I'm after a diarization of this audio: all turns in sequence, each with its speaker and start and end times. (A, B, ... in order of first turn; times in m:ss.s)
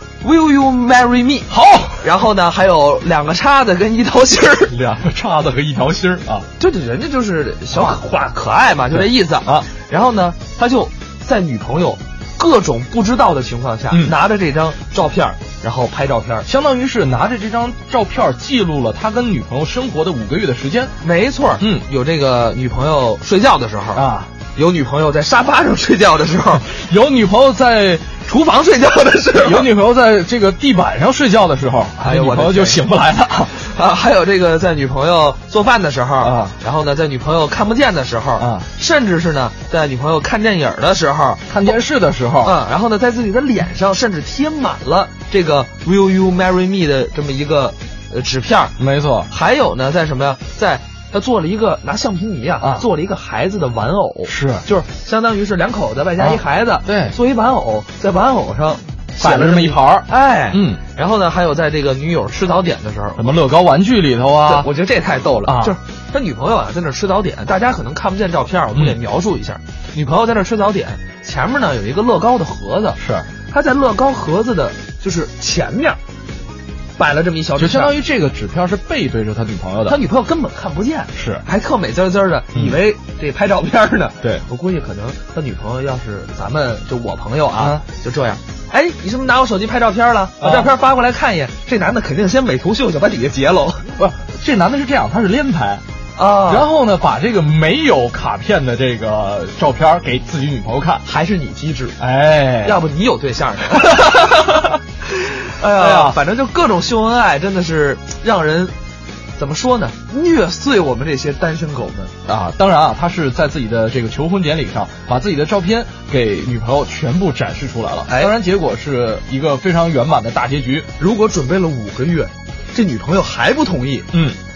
0:00.2-0:04.7 A
0:01.5-0:02.0 B
0:04.7-0:06.5 B
0:06.6-0:16.5 A
0:07.7-0:08.0 B
0:08.9-0:09.7 B
0:13.9-0:14.1 B
0:16.4-0:20.9 B
0:21.0-0:26.6 A
0:21.6-0:21.8 B
0:23.9-0:24.3 B
0:26.6-0:28.2 B
0:28.2-0:29.7 A
0:29.4-0:33.6 B
0:32.0-0:32.8 A
0:33.5-0:41.8 A
0:36.2-0:36.6 B
0:38.4-0:38.7 B
0:41.5-0:42.6 B
0:42.4-0:48.8 A
0:48.8-0:49.3 B
0:49.3-1:03.3 A
0:52.6-0:52.9 B
0:54.2-0:54.6 B
0:56.2-0:57.2 B
0:59.2-1:00.8 B
1:03.2-1:04.7 B
1:04.4-1:16.0 A
1:05.4-1:05.8 B
1:13.0-1:13.3 B
1:17.0-1:18.0 A
1:17.6-1:20.0 B
1:19.9-1:33.9 A
1:21.1-1:21.4 B
1:22.5-1:22.8 B
1:27.5-1:27.8 B
1:30.4-1:30.7 B
1:34.0-1:35.8 B
1:36.2-1:36.7 A
1:36.5-1:41.0 B
1:41.0-1:42.0 A
1:42.0-1:42.8 B
1:42.6-1:48.7 A
1:43.7-1:44.7 B
1:45.7-1:46.2 B
1:49.4-1:52.1 A
1:52.2-2:00.9 B
1:58.1-1:58.3 A
2:01.0-2:04.1 A
2:04.1-2:04.4 B